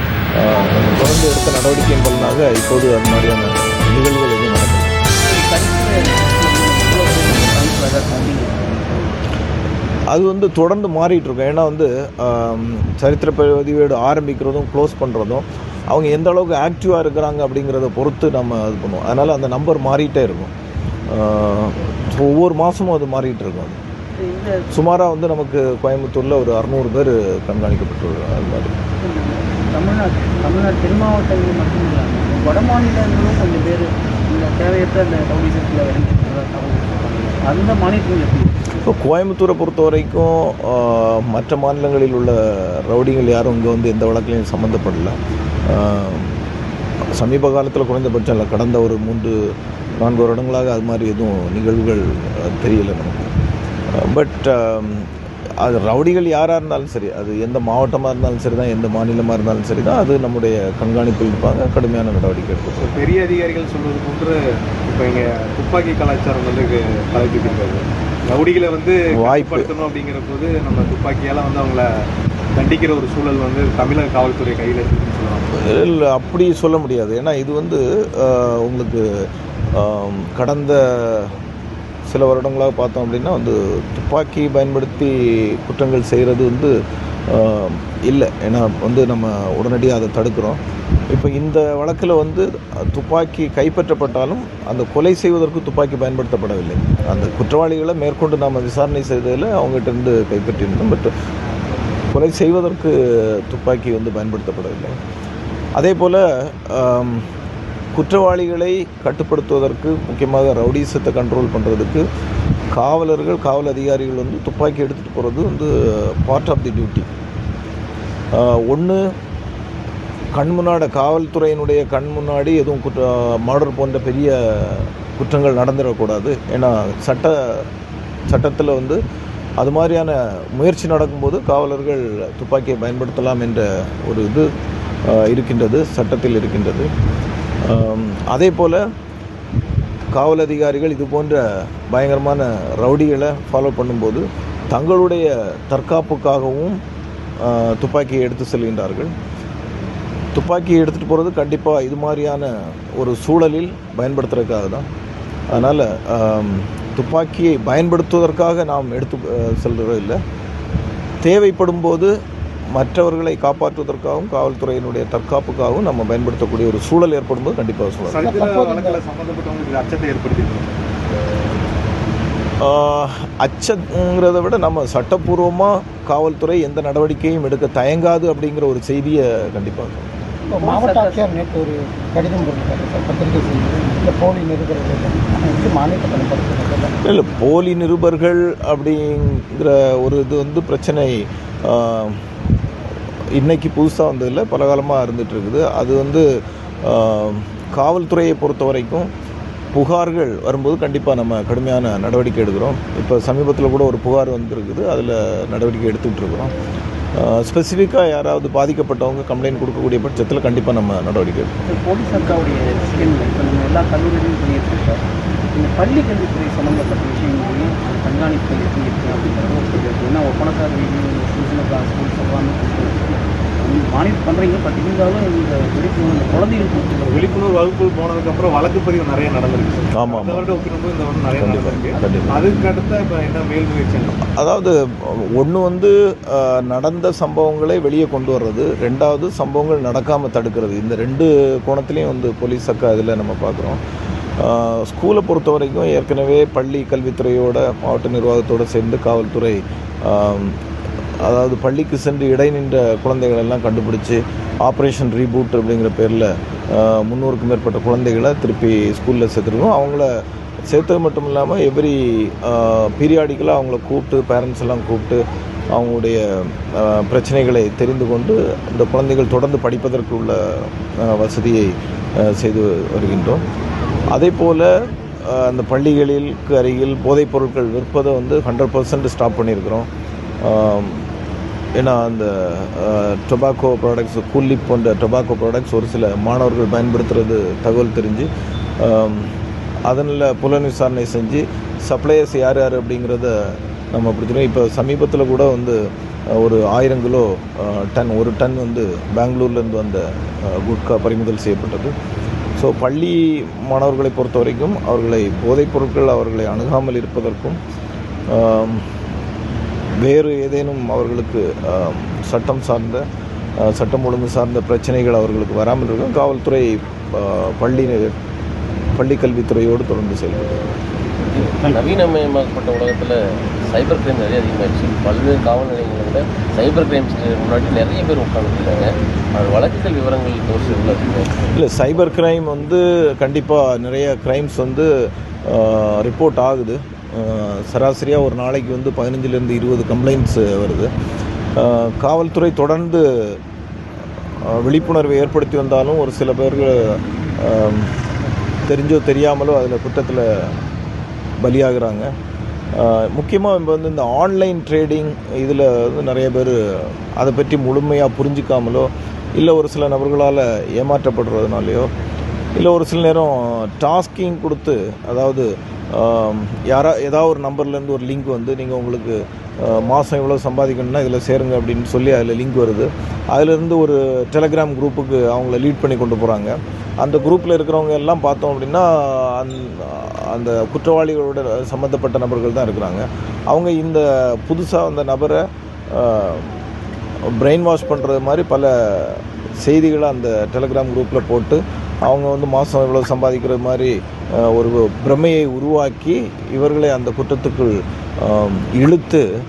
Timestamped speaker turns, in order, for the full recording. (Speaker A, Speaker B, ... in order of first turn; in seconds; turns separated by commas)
Speaker A: 0.3-5.0, Speaker B: 5.2-9.1, Speaker A: 10.1-20.5, Speaker A: 21.1-23.8, Speaker B: 24.1-24.7, Speaker A: 24.7-28.8, Speaker B: 28.9-38.8, Speaker A: 38.8-45.2, Speaker A: 45.7-46.4, Speaker A: 47.1-53.3, Speaker A: 53.9-55.1, Speaker A: 55.6-62.9, Speaker C: 62.8-71.9, Speaker A: 69.1-69.7, Speaker C: 72.5-75.5, Speaker A: 75.5-81.4, Speaker A: 82.1-86.7, Speaker A: 87.3-101.1, Speaker A: 102.1-105.0, Speaker A: 105.8-107.3, Speaker A: 107.9-112.0, Speaker A: 112.7-117.1, Speaker A: 118.3-119.1, Speaker A: 120.3-127.7, Speaker A: 128.3-129.0, Speaker A: 129.6-134.5, Speaker A: 135.0-136.9, Speaker A: 137.6-138.8, Speaker A: 140.1-146.8, Speaker A: 147.4-149.1, Speaker A: 150.3-154.8, Speaker A: 155.5-160.2, Speaker A: 161.2-162.1, Speaker A: 162.7-168.2, Speaker C: 168.1-170.7, Speaker D: 168.2-169.0, Speaker A: 172.6-180.1, Speaker D: 180.5-186.9, Speaker B: 180.6-181.2, Speaker A: 187.0-192.2, Speaker A: 193.3-196.2, Speaker A: 196.8-199.1, Speaker A: 199.7-206.5, Speaker A: 207.2-211.7, Speaker B: 211.6-227.2, Speaker C: 227.1-234.1, Speaker A: 229.9-230.4, Speaker A: 231.4-232.4, Speaker A: 234.2-243.8, Speaker A: 244.4-250.6, Speaker A: 251.2-273.4, Speaker A: 274.1-279.9, Speaker A: 280.4-281.1, Speaker A: 281.7-289.3, Speaker A: 289.9-301.9, Speaker A: 302.6-307.6, Speaker A: 308.3-308.9, Speaker A: 310.0-313.0, Speaker A: 313.6-318.1, Speaker A: 318.9-320.7, Speaker E: 321.3-331.3, Speaker A: 331.5-340.9, Speaker A: 341.6-343.4, Speaker A: 344.4-347.9, Speaker A: 348.6-350.6, Speaker A: 351.4-352.1, Speaker A: 352.7-361.9, Speaker A: 362.6-386.5, Speaker A: 387.3-399.2